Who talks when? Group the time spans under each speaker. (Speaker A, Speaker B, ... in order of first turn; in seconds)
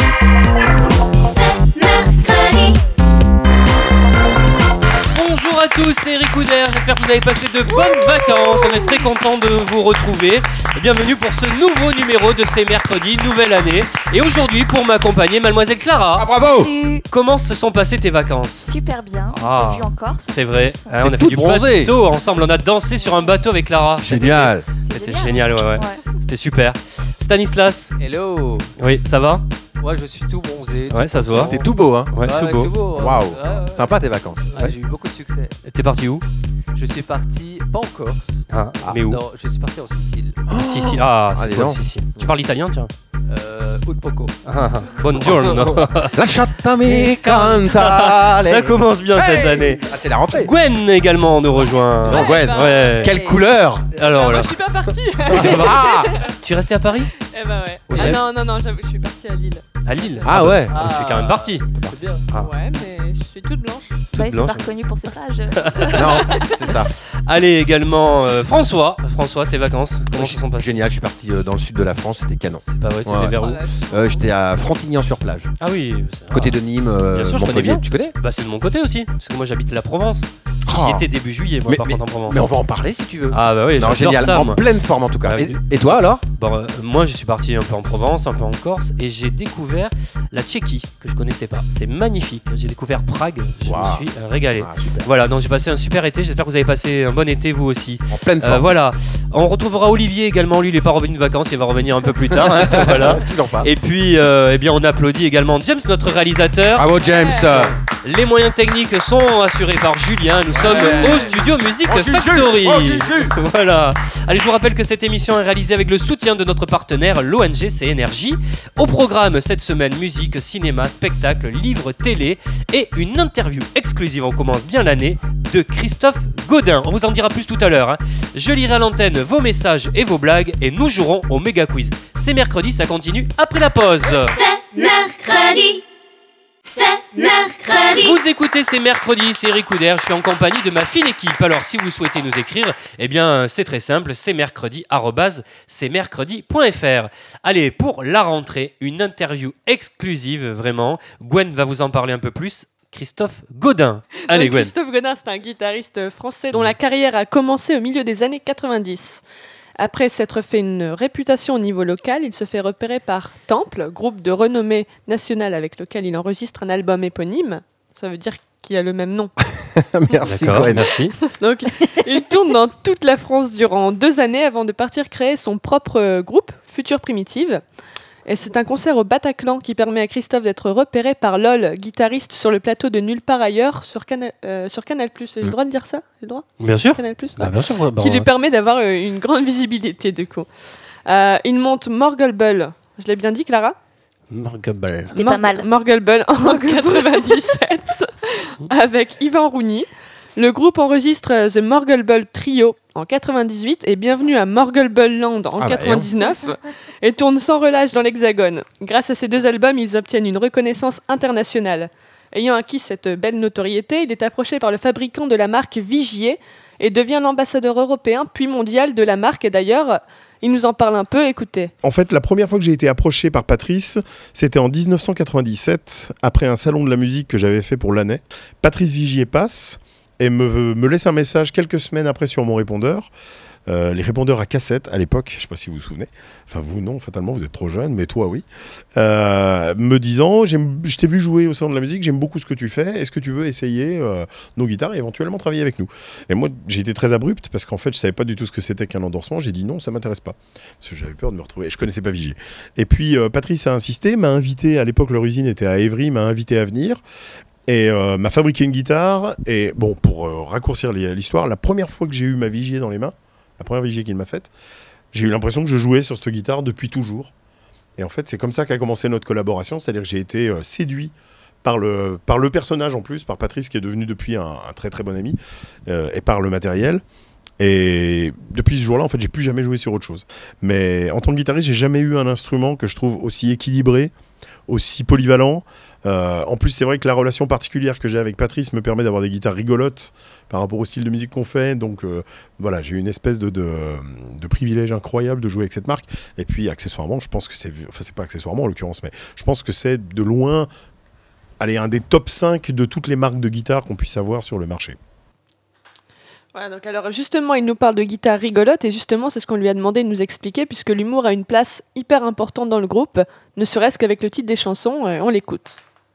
Speaker A: 1.2-2.8, 134.1-135.8, 136.7-138.2
Speaker B: 5.1-16.3, 17.1-18.7, 19.3-27.9, 28.8-29.4, 30.9-31.6, 32.1-32.7, 35.6-36.2, 38.5-39.2, 40.5-42.9, 44.4-53.2, 53.9-54.6, 55.2-57.1, 59.9-61.7, 64.1-64.7, 65.6-66.0, 67.3-70.8, 72.7-73.6, 75.6-76.6, 77.1-82.4, 83.3-84.6, 85.3-106.9, 108.0-134.4, 138.0-154.7, 170.2-171.2, 186.6-188.3, 194.3-195.2
Speaker C: 7.8-8.6, 16.2-16.7, 21.0-21.9, 24.0-24.7, 31.5-32.1, 32.9-34.5, 40.5-41.8, 45.1-50.5, 52.0-53.9, 55.3-56.1, 57.9-58.2, 60.2-60.8, 61.8-62.0, 65.9-66.9, 70.1-75.5, 76.3-78.2, 80.7-81.1, 81.7-86.2, 93.6-95.1, 98.1-98.7, 102.3-103.7, 106.8-107.8, 110.5-113.4, 169.6-170.9, 205.6-206.1
Speaker D: 16.5-17.1, 18.6-21.0, 23.0-23.3, 24.9-26.0, 64.1-66.2, 195.1-195.7, 196.4-197.2
Speaker E: 28.0-28.7, 29.8-35.6, 36.7-40.5, 43.3-44.4, 60.5-62.3
Speaker F: 51.6-53.4, 54.0-56.3, 57.2-60.4, 62.4-64.0, 66.0-66.6, 73.4-74.2, 107.0-107.7, 111.0-111.3, 154.3-159.2, 159.8-169.3, 171.2-177.6, 178.3-190.5, 191.1-193.8, 195.1-221.7, 306.5-315.8
Speaker G: 221.8-233.1, 233.7-238.4, 239.0-257.0, 257.7-264.5, 265.1-267.3, 268.0-277.0, 277.6-284.1, 284.7-300.7, 301.6-305.0